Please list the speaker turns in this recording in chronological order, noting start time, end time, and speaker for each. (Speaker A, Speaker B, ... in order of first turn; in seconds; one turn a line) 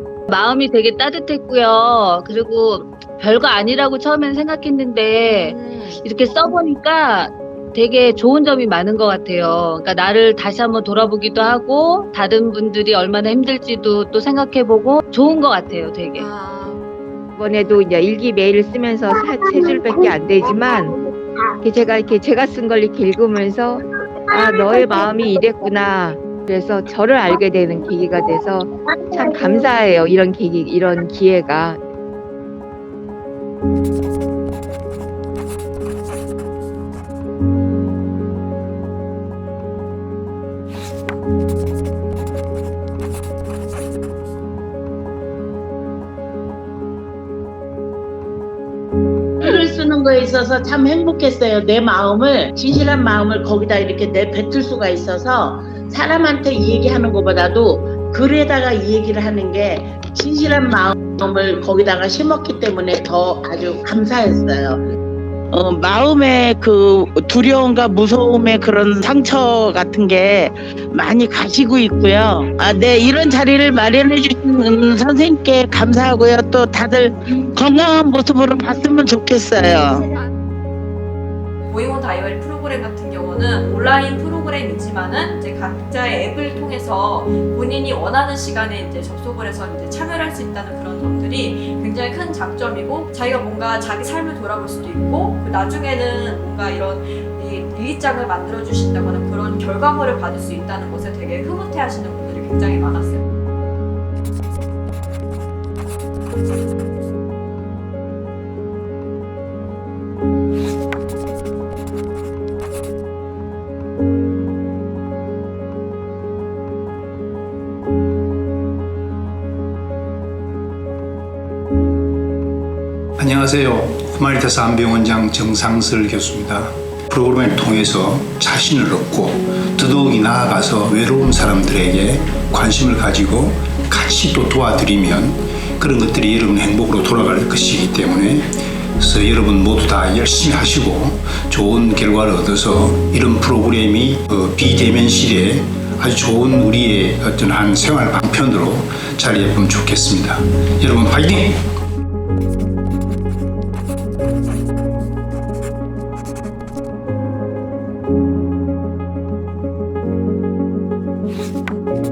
Speaker A: 0.3-16.3
Speaker B: 5.2-6.0
Speaker B: 16.2-16.8
Speaker C: 17.4-20.9
Speaker C: 21.6-31.8
Speaker D: 49.4-64.8
Speaker B: 55.7-56.0
Speaker D: 65.5-80.0
Speaker B: 81.7-103.2
Speaker E: 123.2-151.6